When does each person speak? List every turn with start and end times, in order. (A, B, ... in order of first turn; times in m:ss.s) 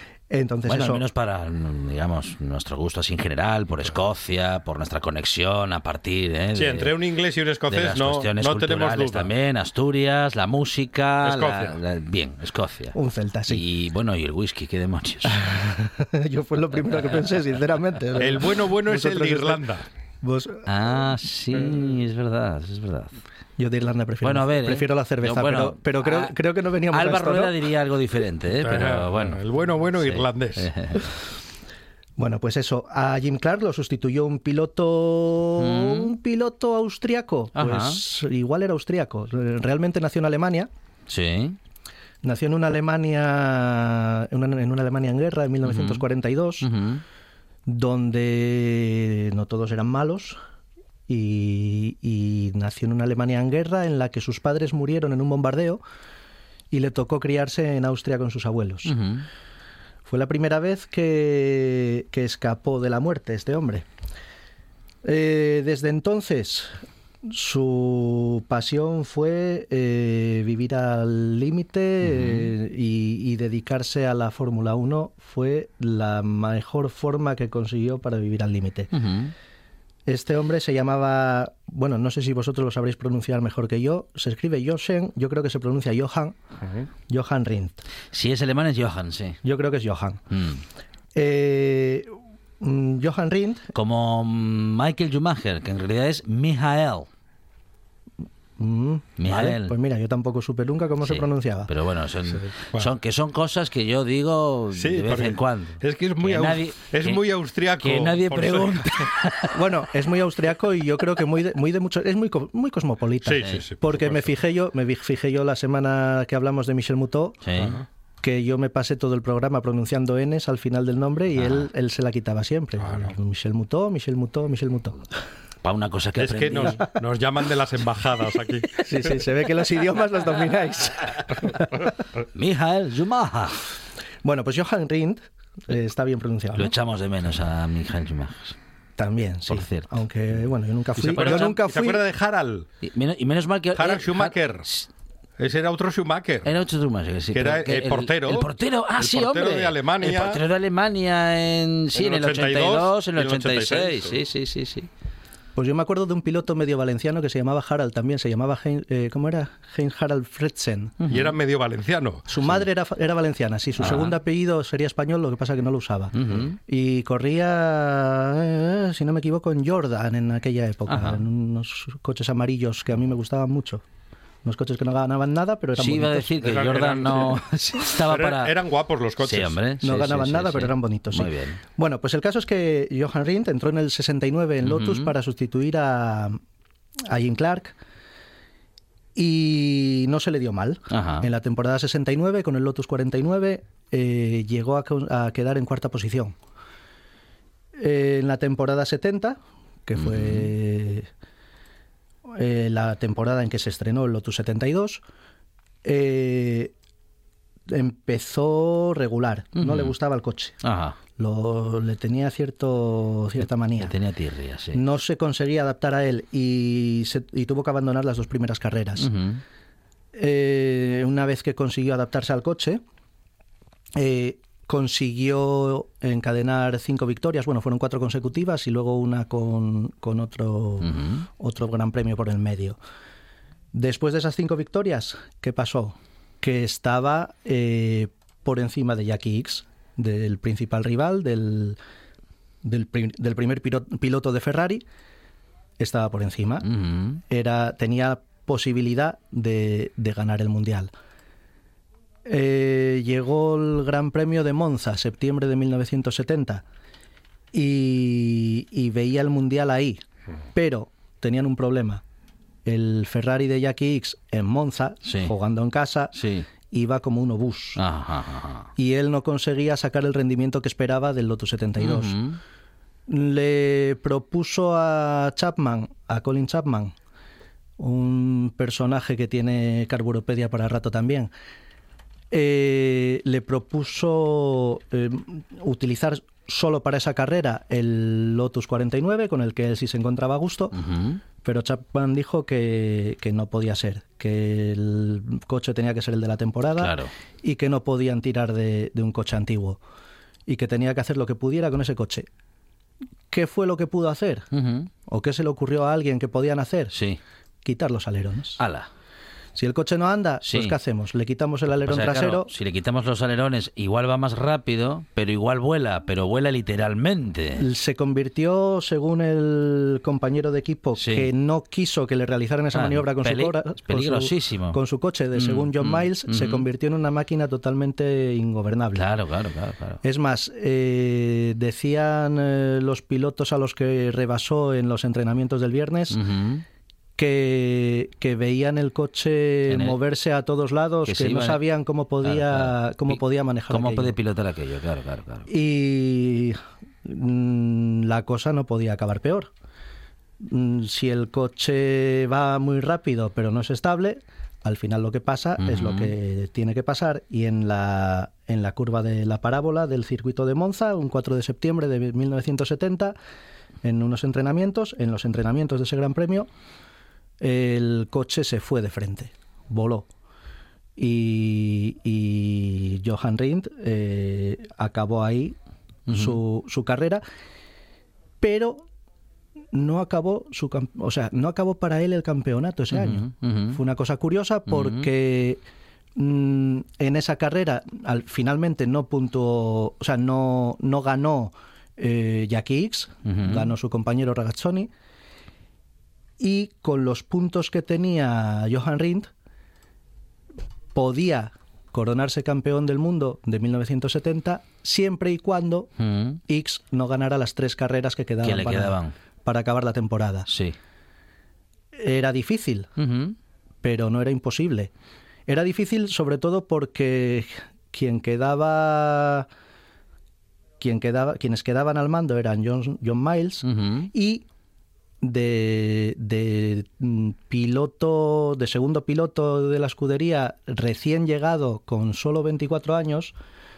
0:00.3-0:01.0 A
0:00.7-0:07.0 B
0:06.6-0:09.3 C
0:07.7-0:13.0 B
0:11.2-0:11.8 C
0:12.9-0:13.6 A
0:13.5-0:15.4 B
0:15.3-0:19.6 A
0:16.9-0:17.3 B
0:18.2-0:19.9 C
0:20.2-0:20.7 A
0:20.7-0:23.2 B
0:23.6-0:27.5 A
0:24.2-0:26.3 B
0:26.9-0:29.4 B
0:28.6-0:30.7 C
0:29.9-0:31.1 B
0:32.2-0:40.7 A
0:35.6-0:36.2 B
0:37.6-0:38.0 B
0:41.1-0:41.6 B
0:42.2-0:46.7 A
0:45.6-0:46.1 B
0:46.6-0:47.0 B
0:47.7-0:50.4 A
0:51.1-0:55.8 A
0:56.7-0:58.9 A
0:58.8-0:59.3 B
1:00.1-1:03.9 A
1:05.0-1:18.9 A
1:12.0-1:12.5 B
1:18.9-1:19.3 B
1:20.1-1:26.4 A
1:27.1-1:27.8 A
1:28.1-1:29.4 B
1:29.4-1:30.2 A
1:30.3-1:30.6 B
1:31.2-1:33.7 A
1:33.7-1:37.1 B
1:38.6-1:41.7 A
1:39.2-1:39.8 B
1:41.0-1:47.2 B
1:42.4-1:42.9 C
1:44.7-1:48.9 C
1:47.8-1:49.7 B
1:49.5-1:57.4 A
1:53.2-1:54.3 C
1:53.3-1:53.6 B
1:57.5-1:57.8 B
1:57.6-1:57.8 C
1:58.2-2:05.0 A
2:01.4-2:01.7 B
2:02.8-2:03.1 C
2:05.6-2:06.9 B
2:06.2-2:08.8 C
2:06.5-2:06.9 A
2:08.9-2:11.9 A
2:12.3-2:13.6 B
2:14.2-2:16.7 A
2:16.6-2:18.6 B
2:19.0-2:22.0 A
2:19.5-2:20.4 B
2:21.0-2:22.7 C
2:21.0-2:21.6 B
2:22.8-2:24.9 B
2:23.8-2:24.7 C
2:25.4-2:26.5 C
2:26.4-2:34.9 B
2:27.3-2:30.4 C
2:32.0-2:34.2 C
2:35.6-2:41.0 A
2:41.0-2:41.4 B
2:41.1-2:42.2 C
2:42.3-2:53.8 A
2:43.8-2:44.2 B
2:46.2-2:46.6 B
2:50.9-2:51.2 B
2:54.4-2:56.5 A
2:55.8-2:58.6 B
2:56.4-2:59.6 C
2:59.2-3:01.6 B
2:59.8-3:06.4 A
3:04.6-3:05.2 B
3:07.1-3:07.8 A
3:09.2-3:16.4 A
3:10.9-3:11.3 B
3:17.8-3:21.1 A
3:20.0-3:20.5 B
3:22.3-3:25.0 A
3:25.8-3:26.7 A
3:27.7-3:30.6 A
3:29.6-3:30.0 B
3:30.6-3:31.0 B
3:31.2-3:33.9 A
3:33.4-3:34.8 B
3:34.7-3:39.1 A
3:39.0-3:39.4 B
3:40.2-3:42.8 A
3:44.0-3:52.8 A
3:50.8-3:51.2 B
3:53.7-4:01.8 A
4:02.6-4:04.8 A
4:05.8-4:06.7 A
4:06.7-4:07.2 B
4:07.3-4:10.9 A
4:12.3-4:16.6 A
4:17.5-4:20.0 A
4:20.5-4:22.0 A
4:22.7-4:27.8 A
4:25.0-4:25.3 B
4:26.2-4:26.5 B
4:27.8-4:28.7 B
4:28.8-4:32.2 A
4:31.8-4:32.4 B
4:33.1-4:37.0 A
4:37.8-4:41.3 A
4:42.3-4:50.8 A
4:50.8-4:51.2 B
4:51.4-4:59.8 A
4:56.8-4:57.1 B
5:00.5-5:02.3 A
5:03.3-5:04.5 A
5:04.5-5:04.9 B
5:05.1-5:06.9 A
5:06.9-5:07.2 B
5:07.6-5:08.6 A
5:08.6-5:08.9 B
5:09.6-5:12.5 A
5:10.4-5:10.8 B
5:11.7-5:17.6 B
5:17.6-5:29.1 A
5:21.0-5:21.3 B
5:22.7-5:24.8 B
5:25.4-5:26.7 B
5:28.9-5:30.0 B
5:30.0-5:36.2 A
5:36.1-5:36.6 B
5:37.2-5:44.2 A
5:39.7-5:40.0 B
5:41.1-5:41.6 B
5:42.2-5:45.5 B
5:45.5-5:49.5 A
5:50.4-6:03.2 A
5:55.6-5:56.1 B
6:03.8-6:06.5 A
6:07.4-6:10.1 A
6:11.0-6:15.6 A
6:16.1-6:16.4 B
6:16.1-6:17.2 A
6:18.4-6:18.9 A
6:19.7-6:25.6 A
6:22.9-6:23.8 B
6:24.7-6:25.1 B
6:26.2-6:34.9 A
6:33.3-6:33.7 B
6:36.4-6:39.3 A
6:40.9-6:45.9 A
6:46.0-6:46.4 B
6:46.5-6:50.5 A
6:48.4-6:49.1 B
6:50.5-6:50.8 B
6:52.0-6:52.9 A
6:53.0-6:53.4 B
6:53.8-6:54.9 A
6:55.5-6:59.5 A
7:00.8-7:04.5 A
7:03.7-7:04.1 B
7:05.2-7:13.3 A